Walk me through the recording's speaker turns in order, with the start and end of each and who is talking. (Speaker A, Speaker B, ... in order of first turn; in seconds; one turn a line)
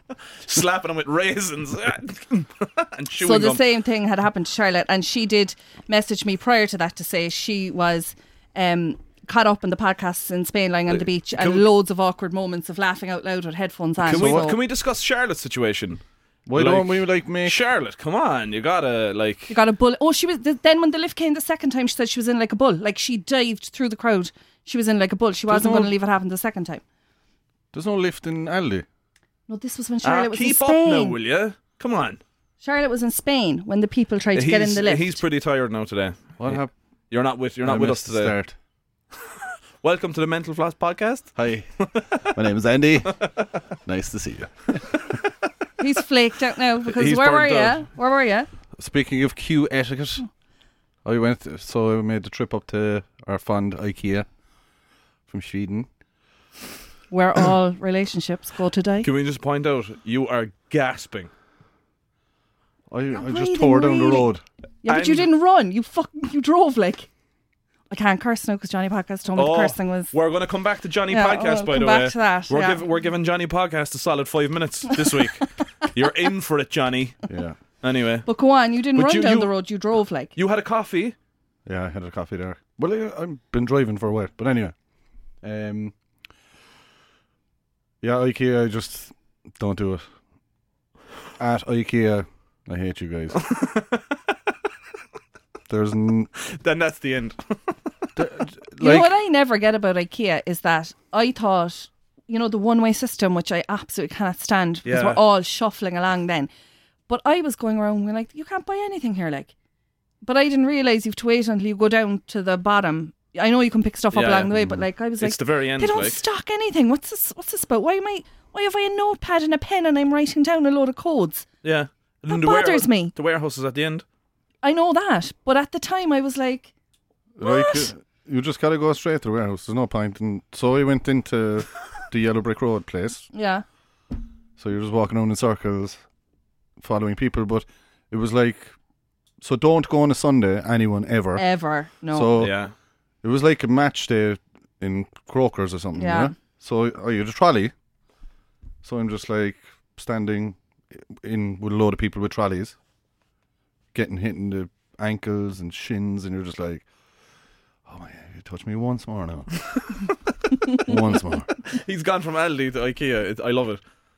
Speaker A: 0.3-3.6
Speaker B: 3.2-14.6
Speaker A: 10.9-11.7
Speaker A: 14.0-16.0
Speaker C: 14.1-14.5
Speaker C: 16.5-17.6
Speaker A: 16.5-19.5
Speaker B: 19.5-26.8
Speaker A: 25.5-25.9
Speaker C: 27.7-28.8
Speaker B: 29.5-31.2
Speaker A: 30.0-32.2
Speaker B: 32.6-35.2
Speaker A: 34.3-38.3
Speaker C: 36.4-36.7
Speaker C: 37.6-38.5
Speaker A: 39.8-42.2
Speaker C: 41.4-43.2
Speaker C: 43.9-45.0
Speaker B: 45.8-48.5
Speaker A: 46.8-47.9
Speaker C: 48.8-50.2
Speaker C: 51.0-54.3
Speaker C: 55.3-55.9
Speaker B: 57.1-59.1
Speaker A: 59.0-61.3
Speaker C: 62.9-64.4
Speaker B: 63.1-64.3
Speaker B: 64.8-67.1
Speaker A: 64.8-65.3
Speaker B: 67.9-70.1
Speaker A: 69.3-77.2
Speaker B: 71.1-72.8
Speaker C: 77.3-77.6
Speaker A: 77.8-78.3
Speaker B: 78.2-80.3
Speaker A: 78.9-79.5
Speaker A: 80.3-81.2
Speaker C: 81.7-84.7
Speaker C: 85.4-85.9
Speaker C: 88.0-90.0
Speaker C: 91.4-93.4
Speaker A: 93.3-94.2
Speaker C: 95.7-96.3
Speaker A: 96.4-97.7
Speaker C: 98.2-99.1
Speaker B: 98.8-106.5
Speaker A: 104.8-105.2
Speaker B: 107.1-109.5
Speaker B: 110.2-121.5
Speaker A: 114.1-114.5
Speaker C: 114.5-114.8
Speaker A: 115.2-116.2
Speaker A: 121.6-124.0
Speaker B: 122.3-123.1
Speaker B: 124.6-126.7
Speaker C: 127.4-133.3
Speaker B: 127.4-127.9
Speaker B: 133.3-133.6
Speaker C: 134.6-136.0
Speaker C: 136.8-138.8
Speaker C: 139.4-141.4
Speaker B: 141.3-142.4
Speaker C: 142.1-142.5
Speaker A: 142.4-142.7
Speaker C: 143.2-147.7
Speaker B: 146.0-146.3
Speaker C: 148.8-152.8
Speaker C: 153.9-156.9
Speaker C: 157.8-159.5
Speaker C: 160.8-161.5
Speaker A: 161.6-163.8